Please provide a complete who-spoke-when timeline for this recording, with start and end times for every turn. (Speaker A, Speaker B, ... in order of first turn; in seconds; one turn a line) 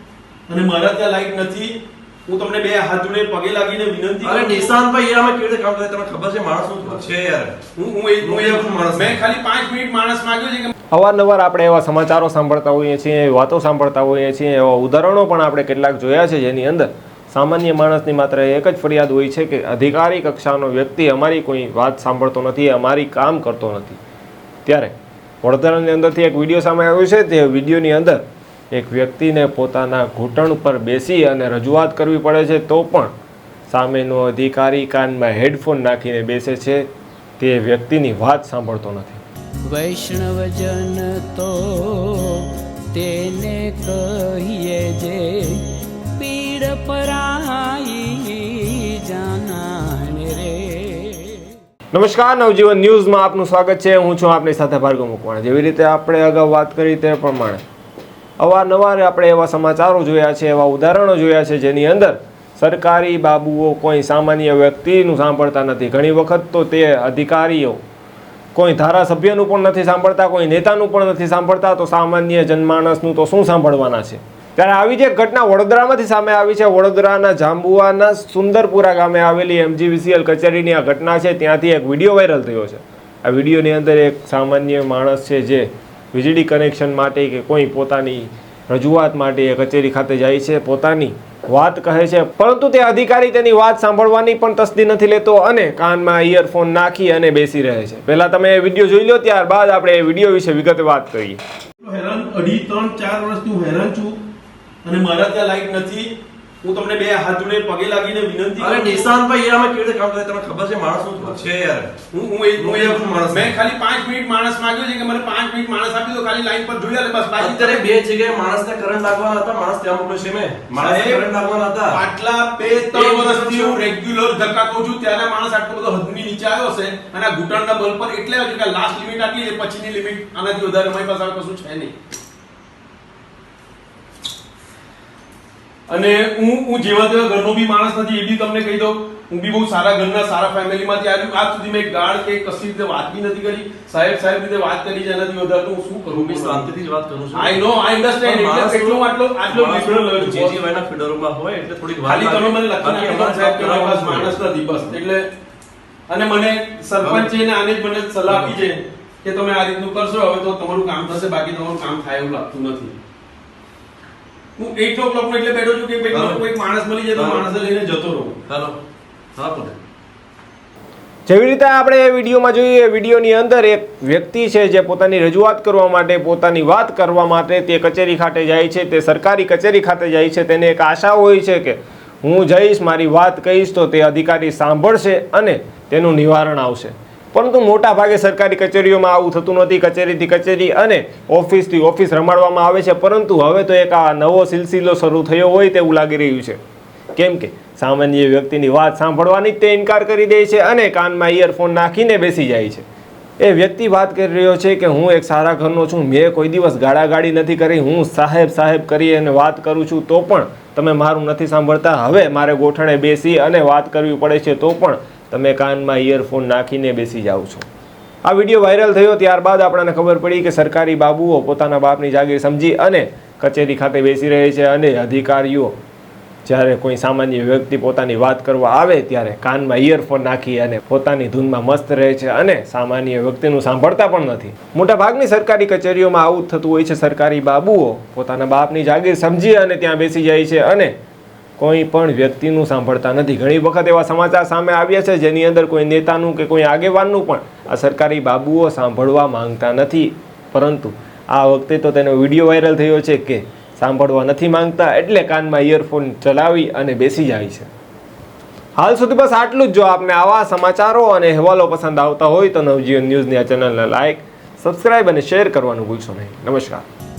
Speaker A: 0.5-4.8
Speaker B: 4.2-7.6
Speaker A: 7.7-10.7
Speaker B: 8.2-9.2
Speaker C: 10.9-24.0
Speaker C: 24.6-33.1
Speaker C: 33.7-36.9
Speaker C: 37.4-39.2
Speaker D: 39.7-51.5
Speaker C: 51.9-57.6
Speaker C: 58.4-67.8
Speaker C: 68.5-101.4
Speaker A: 101.8-104.2
Speaker A: 104.8-109.1
Speaker B: 108.6-111.9
Speaker A: 112.1-117.9
Speaker B: 112.6-113.5
Speaker B: 117.4-122.0
Speaker A: 120.8-121.3
Speaker A: 121.9-131.9
Speaker B: 122.8-123.8
Speaker A: 135.9-146.7
Speaker B: 146.1-147.6
Speaker A: 147.3-150.6
Speaker B: 148.2-154.4
Speaker A: 152.0-155.3
Speaker A: 156.1-162.9
Speaker B: 157.0-157.3
Speaker B: 158.3-158.5
Speaker A: 164.6-168.4
Speaker B: 166.1-166.4
Speaker B: 167.1-167.4
Speaker B: 168.5-168.8
Speaker B: 169.3-169.8
Speaker C: 171.3-196.6
Speaker C: 197.1-202.8
Speaker C: 203.4-217.6
Speaker C: 218.2-225.7
Speaker C: 226.4-240.9
Speaker C: 241.6-257.7
Speaker C: 258.8-266.8